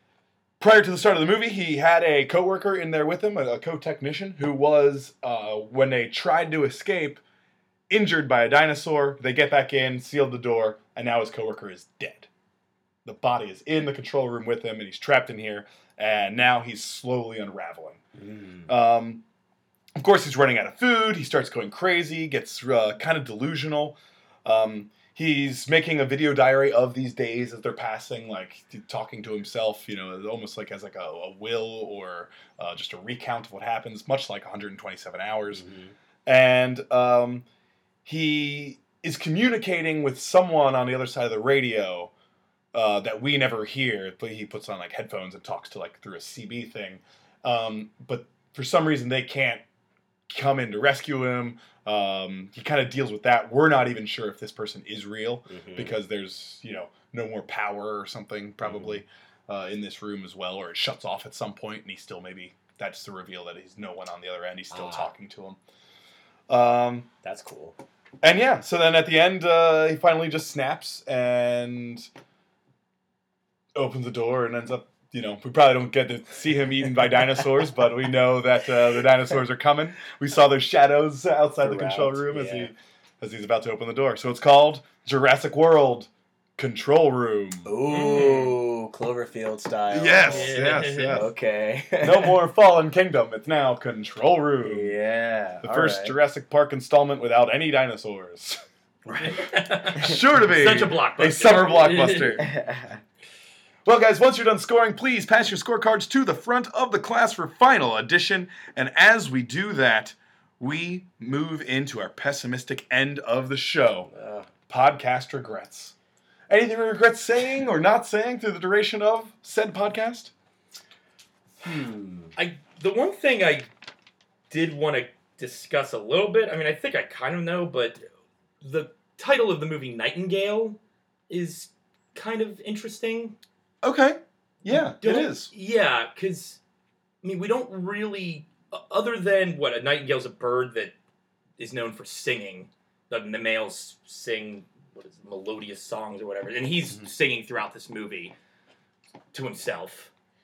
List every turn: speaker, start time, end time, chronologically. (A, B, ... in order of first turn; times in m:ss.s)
0:00.6-0:07.2 A
0:07.9-0:12.3 A
0:13.0-0:18.0 A
0:18.2-0:18.7 B
0:18.7-0:19.2 A
0:20.0-0:35.6 A
0:35.5-0:35.9 B
0:36.2-0:37.4 A
0:38.0-0:42.1 A
0:42.7-0:49.6 A
0:50.3-1:05.6 A
0:55.5-0:56.0 B
0:58.6-0:59.0 B
1:04.7-1:05.1 B
1:06.5-1:07.1 A
1:07.2-1:07.8 B
1:08.2-1:12.1 A
1:13.7-1:27.7 A
1:21.6-1:22.7 B
1:27.6-1:32.4 B
1:27.9-1:28.5 C
1:29.9-1:31.3 A
1:30.3-1:31.2 C
1:32.0-1:35.0 A
1:34.6-1:36.1 B
1:35.6-1:38.6 A
1:39.0-1:40.1 B
1:39.2-1:42.4 C
1:39.9-1:42.5 A
1:42.4-1:43.0 B
1:43.8-1:54.1 A
1:54.1-1:54.5 B
1:54.7-1:55.9 A
1:56.5-2:00.3 A
2:01.6-2:02.3 B
2:02.4-2:03.7 C
2:04.5-2:08.0 C
2:08.6-2:13.4 C
2:13.8-2:15.5 A
2:14.6-2:16.6 C
2:17.2-2:20.9 C
2:21.6-2:28.3 C
2:29.3-2:30.1 C